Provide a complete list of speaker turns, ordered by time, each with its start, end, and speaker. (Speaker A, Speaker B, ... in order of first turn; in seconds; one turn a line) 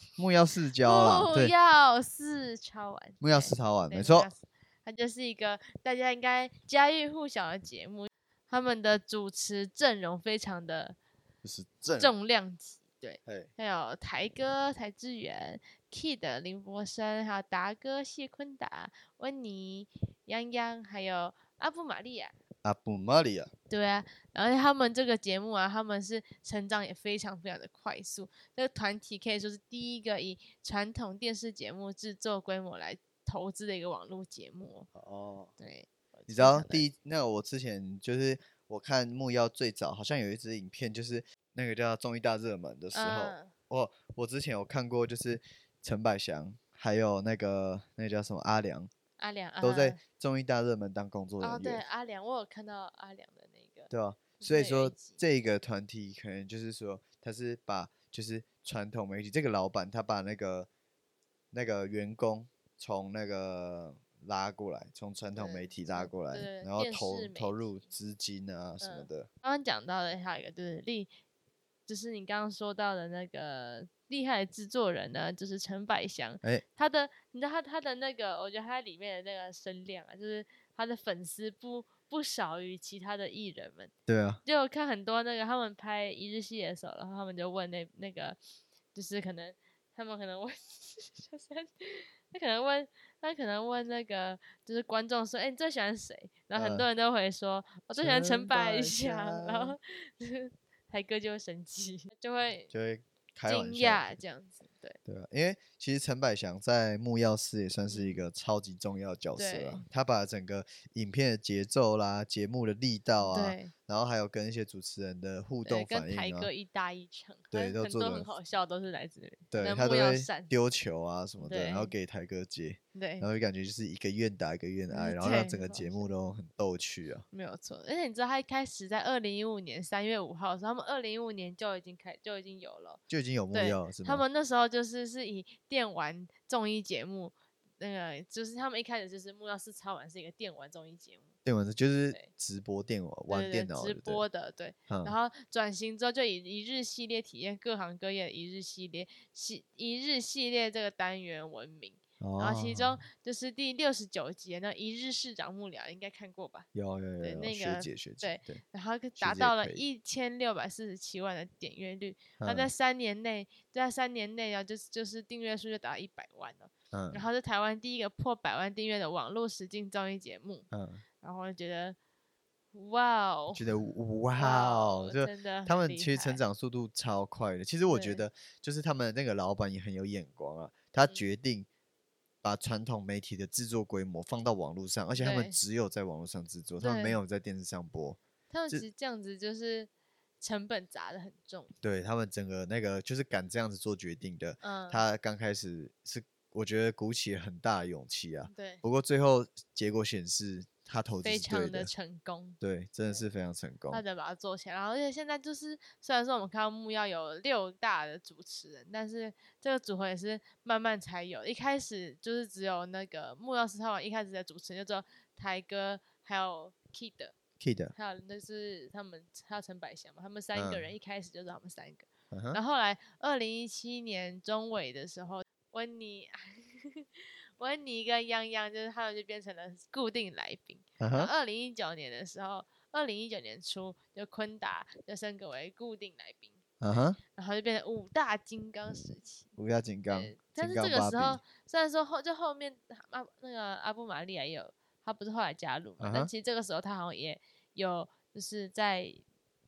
Speaker A: 0.2-1.5
Speaker B: 0.8-11.0
Speaker A: 3.2-4.3
Speaker A: 11.4-12.1
Speaker B: 12.0-22.3
Speaker A: 22.6-23.5
Speaker B: 23.7-34.9
Speaker A: 35.0-35.5
Speaker B: 35.6-36.9
Speaker A: 36.3-48.9
Speaker B: 42.9-43.5
Speaker B: 49.2-50.0
Speaker A: 49.6-51.8
Speaker B: 51.4-53.9
Speaker A: 53.9-60.7
Speaker B: 54.4-55.2
Speaker A: 61.5-69.3
Speaker B: 65.4-67.8
Speaker B: 68.8-71.1
Speaker B: 71.9-83.9
Speaker A: 84.1-84.4
Speaker B: 84.5-88.4
Speaker B: 88.9-102.7
Speaker A: 96.5-96.9
Speaker A: 98.0-99.8
Speaker A: 102.7-104.1
Speaker B: 103.5-105.0
Speaker A: 105.1-116.5
Speaker B: 107.9-108.2
Speaker B: 109.4-109.8
Speaker B: 113.2-113.7
Speaker B: 115.7-120.5
Speaker A: 117.5-118.3
Speaker A: 119.5-127.2
Speaker B: 121.4-121.9
Speaker B: 122.9-123.3
Speaker B: 124.9-126.1
Speaker B: 127.3-133.0
Speaker A: 133.1-134.2
Speaker B: 133.5-141.3
Speaker A: 141.4-144.2
Speaker B: 143.3-156.7
Speaker A: 144.9-145.2
Speaker A: 152.2-153.0
Speaker A: 156.7-158.6
Speaker B: 157.2-170.7
Speaker A: 159.2-159.8
Speaker A: 162.4-162.7
Speaker A: 166.9-167.2
Speaker A: 170.7-171.0
Speaker B: 171.2-172.0
Speaker B: 172.7-173.6
Speaker A: 173.5-181.7
Speaker B: 174.4-176.4
Speaker B: 177.9-178.2
Speaker A: 182.4-188.9
Speaker B: 185.1-185.6
Speaker B: 186.8-187.2
Speaker B: 188.5-189.9
Speaker B: 190.4-191.7
Speaker A: 191.8-201.9
Speaker B: 194.6-195.0
Speaker B: 198.5-198.8
Speaker B: 201.2-203.2
Speaker A: 202.6-204.0
Speaker B: 203.9-217.3
Speaker A: 217.6-217.9
Speaker B: 217.9-236.6
Speaker A: 220.6-220.8
Speaker A: 222.3-222.6
Speaker A: 231.0-231.3
Speaker A: 236.8-237.2
Speaker B: 237.3-239.5
Speaker A: 239.6-241.4
Speaker B: 240.1-249.2
Speaker A: 246.0-246.3